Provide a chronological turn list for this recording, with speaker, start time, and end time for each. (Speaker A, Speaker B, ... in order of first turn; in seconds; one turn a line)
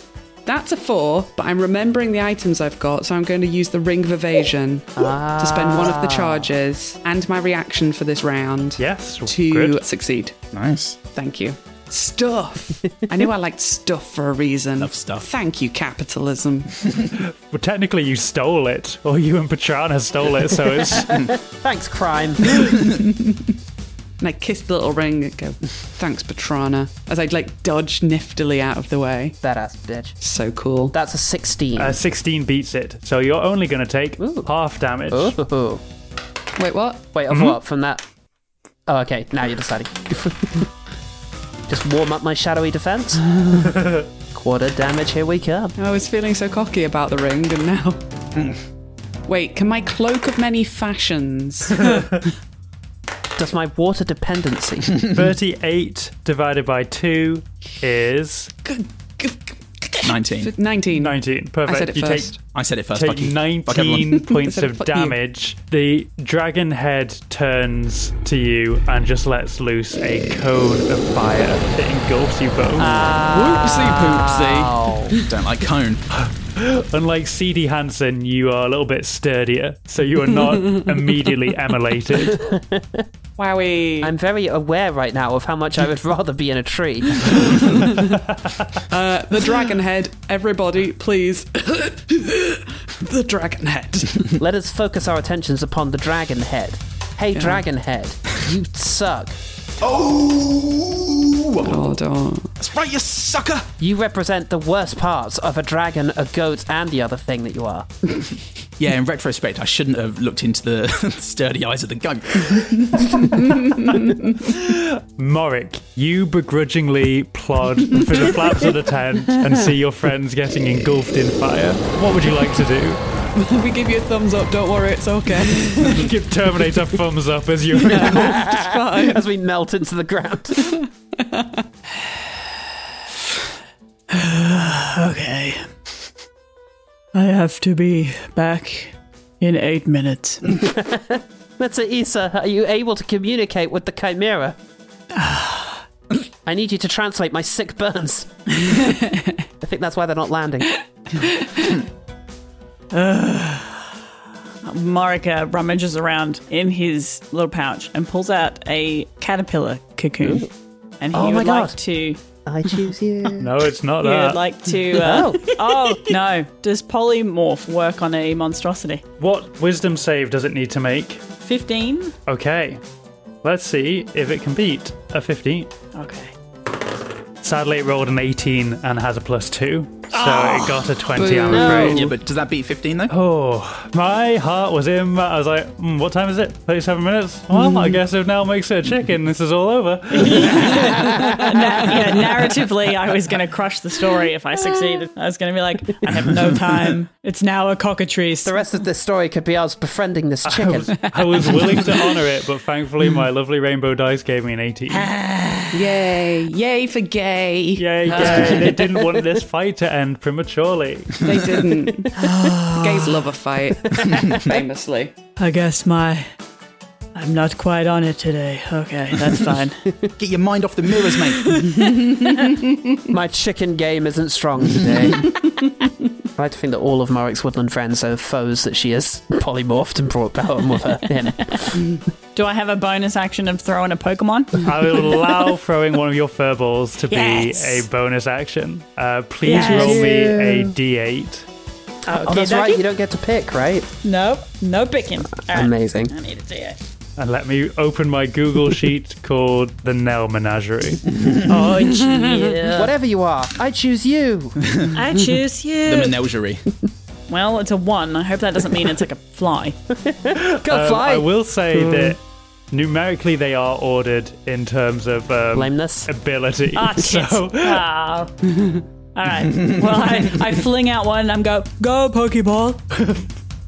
Speaker A: 0.5-10.4
Speaker B: 5.0-6.5
Speaker C: 8.8-9.8
Speaker D: 10.5-11.0
Speaker A: 11.1-16.9
Speaker D: 14.8-15.3
Speaker C: 17.2-21.1
Speaker B: 20.9-22.6
Speaker A: 22.6-23.3
Speaker A: 24.2-29.4
Speaker B: 29.4-30.2
Speaker A: 30.2-30.9
Speaker B: 30.9-32.0
Speaker C: 31.8-35.4
Speaker B: 34.2-34.5
Speaker B: 35.1-35.8
Speaker A: 36.6-37.0
Speaker B: 37.1-38.0
Speaker C: 37.3-37.6
Speaker B: 38.9-40.7
Speaker B: 41.7-43.8
Speaker B: 44.3-45.7
Speaker A: 45.8-48.0
Speaker D: 48.4-48.6
Speaker A: 49.3-52.1
Speaker C: 51.9-52.1
Speaker B: 53.4-55.0
Speaker C: 55.1-58.5
Speaker A: 58.6-62.4
Speaker D: 60.0-60.5
Speaker C: 60.9-62.4
Speaker D: 62.5-64.3
Speaker C: 63.0-72.9
Speaker A: 64.2-65.2
Speaker B: 72.8-75.2
Speaker A: 72.8-75.3
Speaker D: 75.2-76.0
Speaker C: 76.1-82.4
Speaker B: 82.3-83.0
Speaker A: 83.4-84.1
Speaker B: 84.0-87.9
Speaker A: 87.2-87.9
Speaker A: 88.9-94.4
Speaker B: 94.4-99.4
Speaker A: 97.3-97.6
Speaker D: 99.8-102.0
Speaker A: 101.6-102.5
Speaker D: 102.6-103.7
Speaker B: 103.8-107.9
Speaker D: 108.8-113.5
Speaker A: 113.2-114.2
Speaker C: 114.3-123.0
Speaker A: 118.0-118.5
Speaker A: 123.3-126.1
Speaker C: 125.7-128.4
Speaker A: 127.8-129.2
Speaker B: 127.8-130.8
Speaker A: 130.6-131.6
Speaker E: 132.0-132.4
Speaker E: 134.1-135.7
Speaker E: 137.1-140.4
Speaker B: 140.5-144.6
Speaker E: 145.1-145.8
Speaker B: 146.4-148.8
Speaker E: 148.7-149.2
Speaker B: 149.6-150.8
Speaker E: 151.1-151.8
Speaker E: 152.9-153.9
Speaker E: 154.7-160.5
Speaker B: 160.2-160.5
Speaker E: 161.0-162.2
Speaker B: 161.1-161.8
Speaker B: 162.5-163.5
Speaker C: 163.4-164.4
Speaker E: 164.0-169.0
Speaker B: 164.9-165.8
Speaker C: 169.2-171.2
Speaker E: 171.4-172.2
Speaker C: 172.3-172.8
Speaker C: 173.4-175.7
Speaker E: 175.9-176.3
Speaker C: 177.4-182.0
Speaker E: 180.1-180.9
Speaker A: 181.2-182.1
Speaker E: 181.5-182.0
Speaker D: 181.7-183.1
Speaker C: 183.1-191.5
Speaker A: 187.6-188.0
Speaker E: 190.1-198.6
Speaker B: 190.7-192.0
Speaker D: 196.1-197.0
Speaker B: 198.4-200.9
Speaker C: 200.4-205.1
Speaker E: 200.9-202.1
Speaker E: 204.9-205.9
Speaker A: 205.7-208.8
Speaker C: 207.8-211.3
Speaker E: 208.1-208.7
Speaker A: 211.2-212.2
Speaker E: 212.1-213.3
Speaker A: 212.8-215.1
Speaker B: 213.9-214.6
Speaker E: 215.4-216.3
Speaker E: 217.2-219.9
Speaker D: 220.2-221.5
Speaker E: 221.2-222.5
Speaker B: 223.1-225.4
Speaker B: 226.4-231.9
Speaker E: 231.2-231.6
Speaker E: 232.3-235.4
Speaker C: 234.6-241.5
Speaker E: 237.1-237.9
Speaker E: 239.4-240.2
Speaker B: 239.5-240.7
Speaker E: 242.1-242.8
Speaker B: 242.2-243.9
Speaker E: 244.0-246.9
Speaker B: 245.4-246.1
Speaker C: 247.2-251.0
Speaker D: 251.1-251.7
Speaker E: 251.4-252.9
Speaker B: 252.7-254.6
Speaker D: 254.6-255.0
Speaker E: 254.9-256.2
Speaker D: 255.8-256.6
Speaker E: 257.3-259.8
Speaker B: 260.0-262.1
Speaker C: 260.6-267.8
Speaker B: 265.5-266.1
Speaker E: 266.7-268.3
Speaker E: 269.1-273.0
Speaker C: 273.0-273.3